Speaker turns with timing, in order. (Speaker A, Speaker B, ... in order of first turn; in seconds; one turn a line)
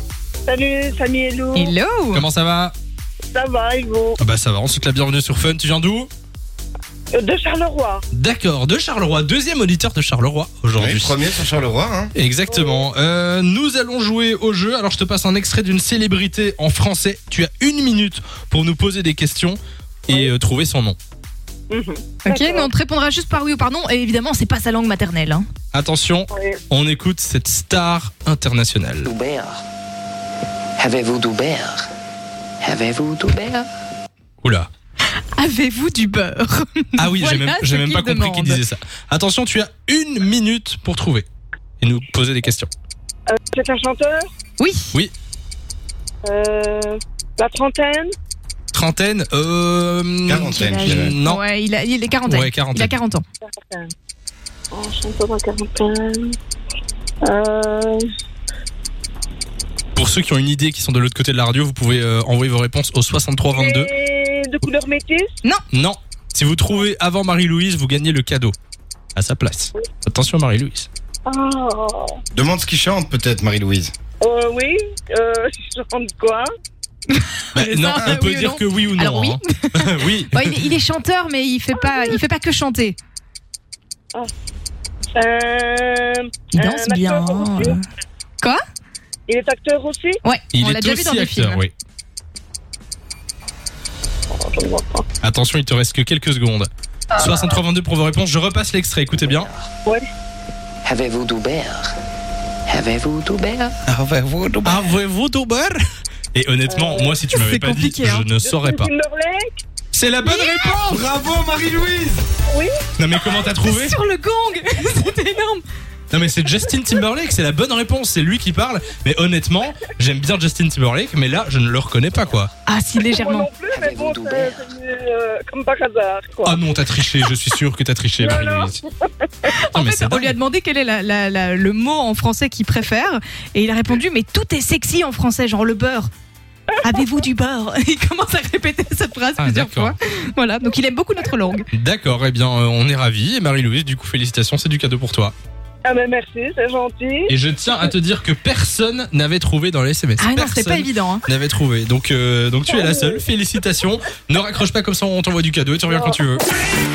Speaker A: 0.5-1.7
Speaker B: 1.5-2.2
Speaker C: 2.1-2.7
Speaker A: 3.3-4.2
Speaker C: 4.2-6.1
Speaker A: 7.1-8.0
Speaker C: 8.1-11.2
Speaker D: 10.8-12.1
Speaker C: 12.1-21.0
Speaker A: 12.5-12.8
Speaker A: 21.7-22.7
Speaker B: 22.2-25.4
Speaker C: 25.7-29.1
Speaker A: 26.3-26.6
Speaker E: 29.0-29.6
Speaker E: 30.8-31.9
Speaker E: 32.6-33.7
Speaker C: 34.4-34.7
Speaker B: 35.3-38.6
Speaker C: 37.0-41.2
Speaker C: 41.8-42.7
Speaker A: 43.3-44.2
Speaker B: 44.6-44.9
Speaker A: 46.2-48.1
Speaker C: 48.7-51.4
Speaker D: 50.2-51.2
Speaker B: 50.4-53.2
Speaker C: 52.2-52.9
Speaker A: 53.4-53.9
Speaker A: 54.7-56.4
Speaker A: 57.2-58.0
Speaker C: 59.9-63.9
Speaker A: 63.5-65.3
Speaker C: 65.7-68.5
Speaker C: 69.1-70.9
Speaker A: 71.2-72.2
Speaker D: 72.3-73.9
Speaker A: 74.2-76.5
Speaker B: 77.1-83.0
Speaker C: 77.5-80.7
Speaker A: 85.1-87.8
Speaker B: 86.5-87.8
Speaker A: 89.3-90.2
Speaker B: 90.2-91.6
Speaker C: 90.5-91.7
Speaker A: 94.3-95.0
Speaker C: 95.2-99.5
Speaker E: 99.1-99.7
Speaker E: 100.8-101.9
Speaker E: 102.7-103.8
Speaker D: 103.8-104.9
Speaker C: 104.6-105.8
Speaker C: 106.3-108.9
Speaker A: 106.7-107.2
Speaker B: 107.3-108.3
Speaker A: 108.4-109.5
Speaker C: 109.9-111.0
Speaker D: 110.2-112.2
Speaker B: 110.2-110.5
Speaker C: 113.0-114.0
Speaker B: 113.4-115.6
Speaker C: 116.1-122.5
Speaker E: 122.1-122.4
Speaker B: 122.7-123.5
Speaker A: 123.0-126.6
Speaker E: 123.7-124.7
Speaker C: 126.4-128.8
Speaker A: 128.2-129.5
Speaker B: 129.5-136.1
Speaker C: 129.7-130.3
Speaker B: 136.8-141.7
Speaker C: 139.4-139.9
Speaker C: 141.7-145.3
Speaker A: 145.8-147.3
Speaker C: 147.3-156.4
Speaker B: 150.2-151.2
Speaker A: 152.7-153.2
Speaker A: 155.9-156.2